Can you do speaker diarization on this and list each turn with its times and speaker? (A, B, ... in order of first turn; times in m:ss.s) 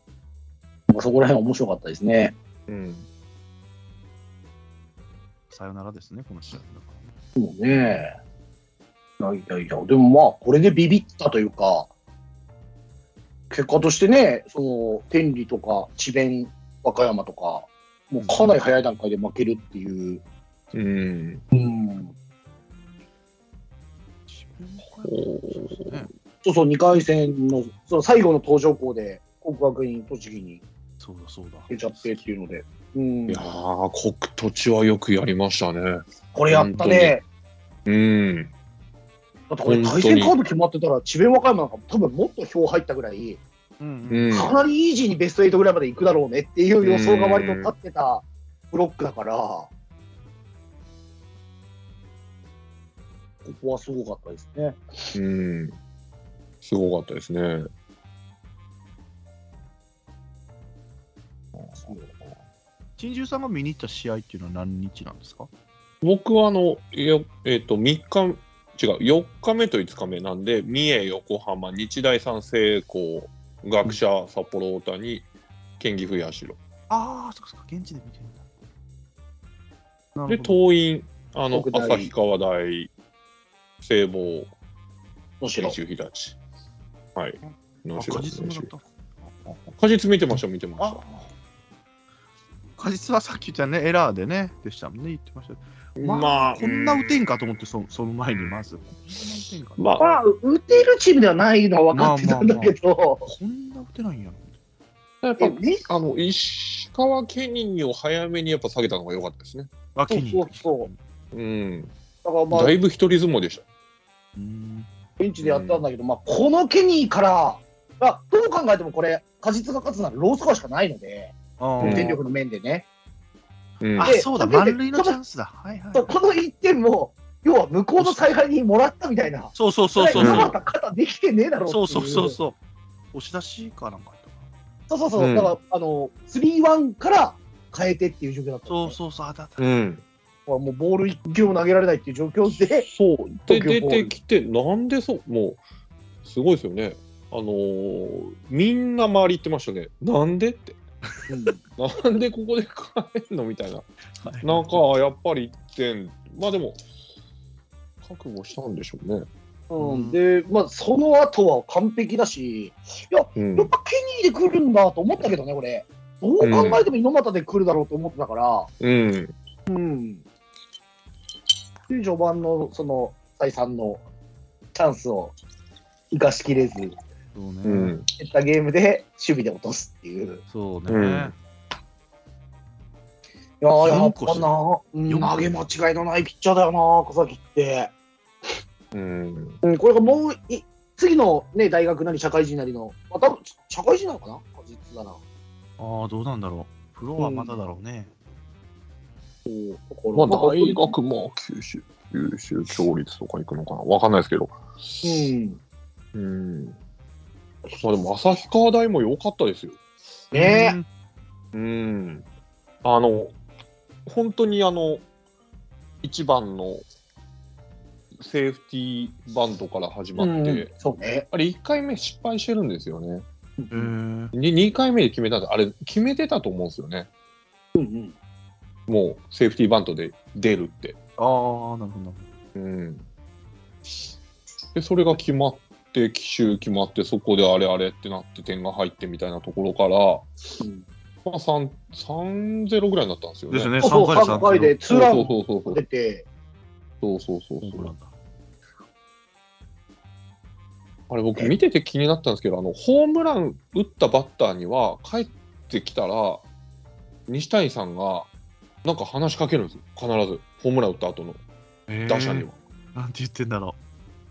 0:00.9-0:02.4 A
0:02.7-0:03.1 B
0:05.5-0:07.1 C
0:07.4-0:08.2 A
0:09.2-0:11.9 A
0:13.5-0:20.2 A
0:18.2-0:18.5 C
0:20.7-0:21.4 B
0:21.5-0:22.1 A
0:24.3-0:26.1 C
0:25.0-0:26.1 B
0:26.4-0:30.6 A
0:31.0-0:32.1 C
0:31.7-0:33.4 A
0:33.3-0:37.2 B
0:36.3-0:37.2 A
0:37.9-0:38.5 B
0:39.5-0:43.4 A
0:39.6-0:40.4 B
0:43.8-0:44.5 C
0:44.1-0:44.5 B
0:44.3-0:49.7 A
0:46.8-0:47.7 B
0:53.4-0:55.1 A
0:55.1-0:55.8 B
0:56.6-0:57.7 B
1:03.0-1:05.5 C
1:06.0-1:15.3 B
1:15.8-1:16.6 B
1:16.9-1:18.4 C
1:20.2-1:20.6 C
1:20.3-1:22.9 B
1:21.5-1:22.1 A
1:23.8-1:24.5 B
1:25.4-1:25.8 A
1:25.6-1:26.4 B
1:27.2-1:28.7 B
1:27.5-1:28.9 C
1:29.7-1:31.0 B
1:30.8-1:31.2 C
1:32.8-1:39.9 C
1:36.0-1:37.4 B
1:38.3-1:38.6 B
1:39.8-1:40.2 B
1:40.0-1:43.3 A
1:41.9-1:42.8 C
1:43.3-1:44.6 C
1:45.2-1:49.7 B
1:45.4-1:45.8 A
1:50.0-1:51.0 C
1:50.1-1:50.9 A
1:51.3-1:51.9 B
1:52.2-1:52.8 A
1:52.5-1:53.6 B
1:54.4-1:54.9 C
1:55.2-2:02.9 A
1:55.4-1:55.8 B
2:01.6-2:02.2 C
2:01.8-2:02.2 B
2:03.8-2:04.2 B
2:04.0-2:06.1 C
2:04.0-2:05.2 A
2:05.9-2:12.4 A
2:08.0-2:08.3 C
2:09.6-2:10.5 C
2:10.2-2:10.5 B
2:11.7-2:12.6 C
2:13.1-2:14.5 C
2:14.9-2:19.0 A
2:15.2-2:15.5 B
2:18.7-2:19.6 C
2:19.6-2:20.0 B
2:20.5-2:22.9 A
2:22.8-2:25.6 B
2:23.5-2:24.1 A
2:26.2-2:30.8 B
2:31.3-2:31.6 A
2:31.8-2:33.9 B
2:34.2-2:34.8 C
2:34.4-2:36.8 B
2:38.0-2:39.3 B
2:39.7-2:48.7 A
2:39.8-2:40.2 C
2:43.4-2:43.7 B
2:46.4-2:46.8 B
2:48.8-2:49.3 B
2:49.7-2:50.2 A
2:51.9-2:54.0 A
2:54.7-2:55.4 A
2:56.1-2:57.0 A
2:57.3-2:58.0 C
2:57.6-2:58.1 B
2:58.1-3:00.4 A
3:00.5-3:01.4 C
3:00.9-3:01.3 B
3:03.6-3:07.9 A
3:03.8-3:04.5 C
3:05.1-3:05.6 C
3:08.9-3:09.6 B
3:09.6-3:15.2 A
3:15.8-3:18.1 C
3:17.2-3:17.6 A
3:19.4-3:20.9 A
3:20.2-3:25.0 B
3:25.0-3:25.6 A
3:26.1-3:26.8 B
3:27.7-3:29.8 B
3:30.3-3:30.9 C
3:30.3-3:30.8 A
3:31.5-3:32.2 B
3:32.8-3:33.4 B
3:34.1-3:35.0 B
3:36.0-3:36.8 B
3:38.2-3:40.7 B
3:40.2-3:41.3 A
3:41.3-3:43.2 B
3:43.6-3:43.9 A
3:43.7-3:44.3 C
3:44.3-3:47.1 B
3:47.8-3:48.1 A
3:48.9-3:51.0 B
3:51.2-3:52.3 C
3:52.6-3:53.0 B
3:54.8-4:00.3 B
4:00.6-4:00.8 A
4:01.2-4:03.8 B
4:03.5-4:04.8 C
4:03.8-4:06.3 A
4:04.9-4:05.8 B
4:07.0-4:07.9 B
4:07.6-4:08.1 C
4:11.1-4:16.4 B
4:17.3-4:18.3 B
4:18.8-4:21.4 B
4:21.9-4:23.8 C
4:22.1-4:22.6 B